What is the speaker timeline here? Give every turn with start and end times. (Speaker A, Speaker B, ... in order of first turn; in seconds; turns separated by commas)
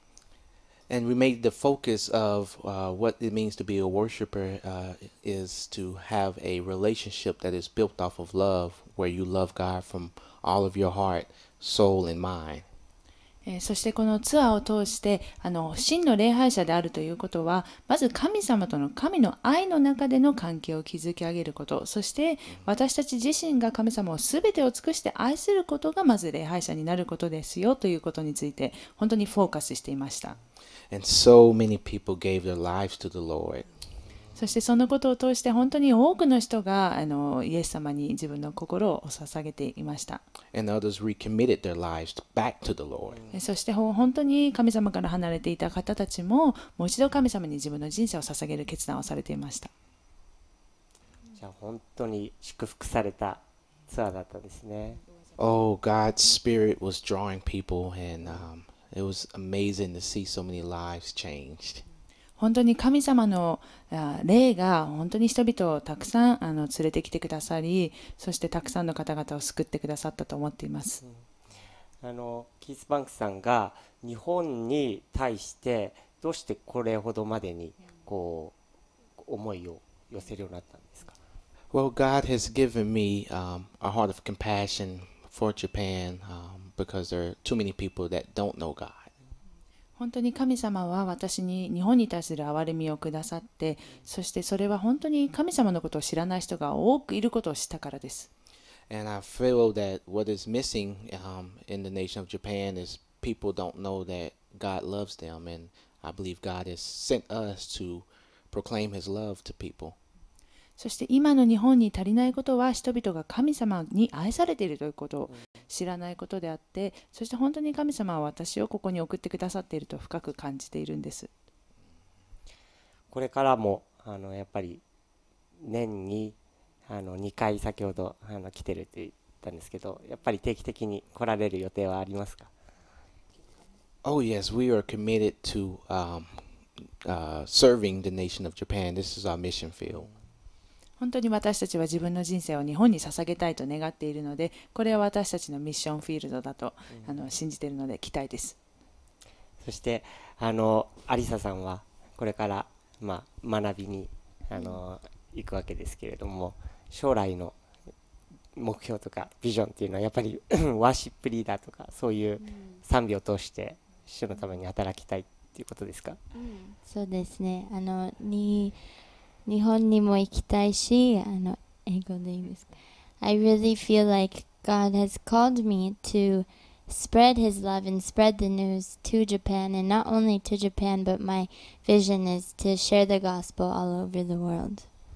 Speaker A: 0.9-12.7, Speaker B: 13.4-30.4, Speaker A: 30.9-33.8, Speaker B: 34.4-40.2, Speaker A: 40.5-43.2, Speaker C: 43.1-43.4, Speaker B: 43.3-49.7, Speaker C: 51.4-55.0, Speaker A: 55.4-61.9, Speaker B: 62.4-71.0, Speaker C: 71.0-71.5, Speaker C: 72.0-78.6, Speaker C: 79.1-81.2, Speaker A: 81.7-89.1, Speaker B: 90.0-98.3, Speaker A: 98.9-110.0, Speaker B: 110.8-121.3, Speaker C: 115.3-115.6, Speaker C: 123.1-124.8, Speaker C: 125.6-132.5, Speaker A: 134.0-140.1, Speaker C: 139.9-140.3, Speaker B: 141.0-148.6, Speaker C: 146.9-147.3, Speaker C: 149.6-157.6, Speaker C: 158.5-166.2, Speaker D: 162.4-162.8, Speaker D: 166.3-184.9